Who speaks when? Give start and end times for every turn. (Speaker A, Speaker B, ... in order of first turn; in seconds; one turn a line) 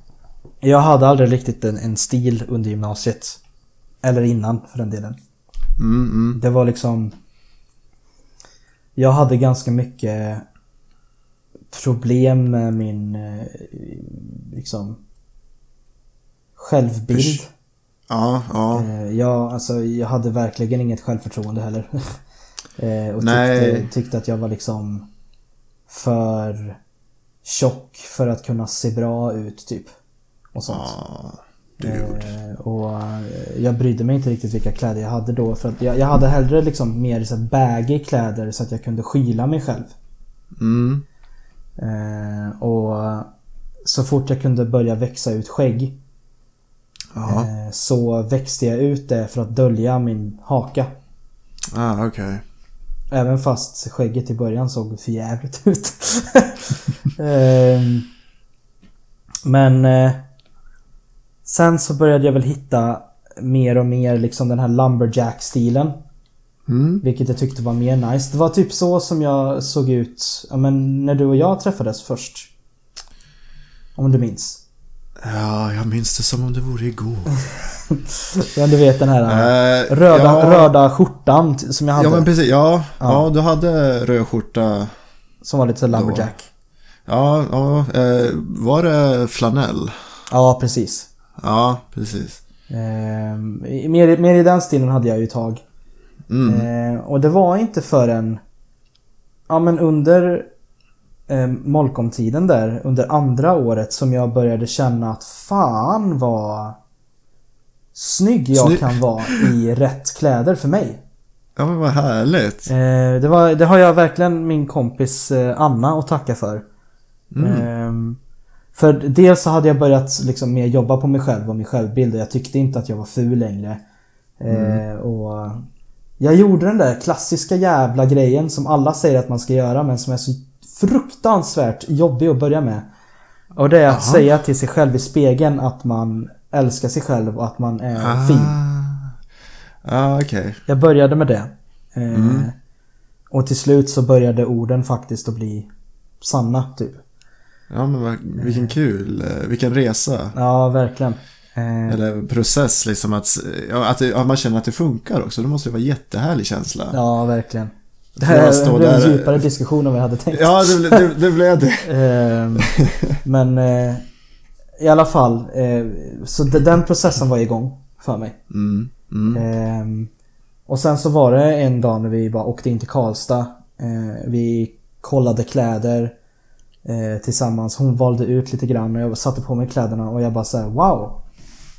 Speaker A: 0.6-3.4
Speaker A: 4.0-5.2
Speaker B: 5.8-6.4
Speaker A: 6.3-7.1
Speaker A: 8.9-10.4
Speaker A: 11.7-15.0
Speaker A: 16.6-17.5
Speaker B: 17.1-17.4
Speaker B: 18.1-18.9
Speaker A: 18.7-21.9
Speaker A: 22.8-25.1
Speaker B: 23.2-23.9
Speaker A: 25.9-26.8
Speaker A: 27.4-29.9
Speaker A: 30.5-30.9
Speaker B: 30.7-32.3
Speaker A: 31.8-39.9
Speaker B: 40.6-41.0
Speaker A: 41.8-43.3
Speaker A: 43.8-46.0
Speaker B: 47.1-47.5
Speaker A: 47.2-50.9
Speaker B: 51.7-52.4
Speaker A: 53.1-58.1
Speaker A: 59.4-60.2
Speaker A: 61.5-66.0
Speaker B: 66.7-67.0
Speaker A: 67.0-72.5
Speaker A: 74.0-74.6
Speaker B: 75.2-77.3
Speaker A: 77.9-82.3
Speaker B: 79.3-80.7
Speaker B: 82.0-84.9
Speaker A: 83.0-83.2
Speaker A: 85.4-86.5
Speaker B: 85.9-86.3
Speaker B: 87.0-89.9
Speaker A: 90.3-91.1
Speaker B: 91.4-92.4
Speaker A: 92.7-95.6
Speaker B: 96.3-96.7
Speaker A: 96.5-98.4
Speaker A: 99.5-100.5
Speaker A: 101.3-106.8
Speaker A: 107.9-111.0
Speaker B: 108.5-109.5
Speaker B: 111.5-112.7
Speaker A: 112.7-116.6
Speaker B: 117.3-117.7
Speaker A: 117.4-118.2
Speaker A: 118.7-123.8
Speaker A: 124.4-125.6
Speaker B: 124.5-124.8
Speaker A: 126.2-132.9
Speaker A: 133.6-138.5
Speaker B: 133.9-134.2
Speaker B: 138.0-139.1
Speaker B: 139.8-140.6
Speaker A: 140.7-142.5
Speaker B: 142.1-142.5
Speaker A: 143.3-145.7
Speaker A: 146.2-147.0
Speaker B: 147.7-150.3
Speaker A: 148.4-148.8
Speaker A: 150.3-152.0
Speaker B: 151.9-157.0
Speaker A: 156.9-161.1
Speaker B: 158.2-159.4
Speaker B: 160.3-161.9
Speaker A: 161.8-164.0
Speaker B: 162.6-163.1
Speaker A: 164.8-168.4
Speaker B: 168.5-169.4
Speaker A: 169.3-170.1
Speaker A: 170.7-176.1
Speaker A: 176.8-181.2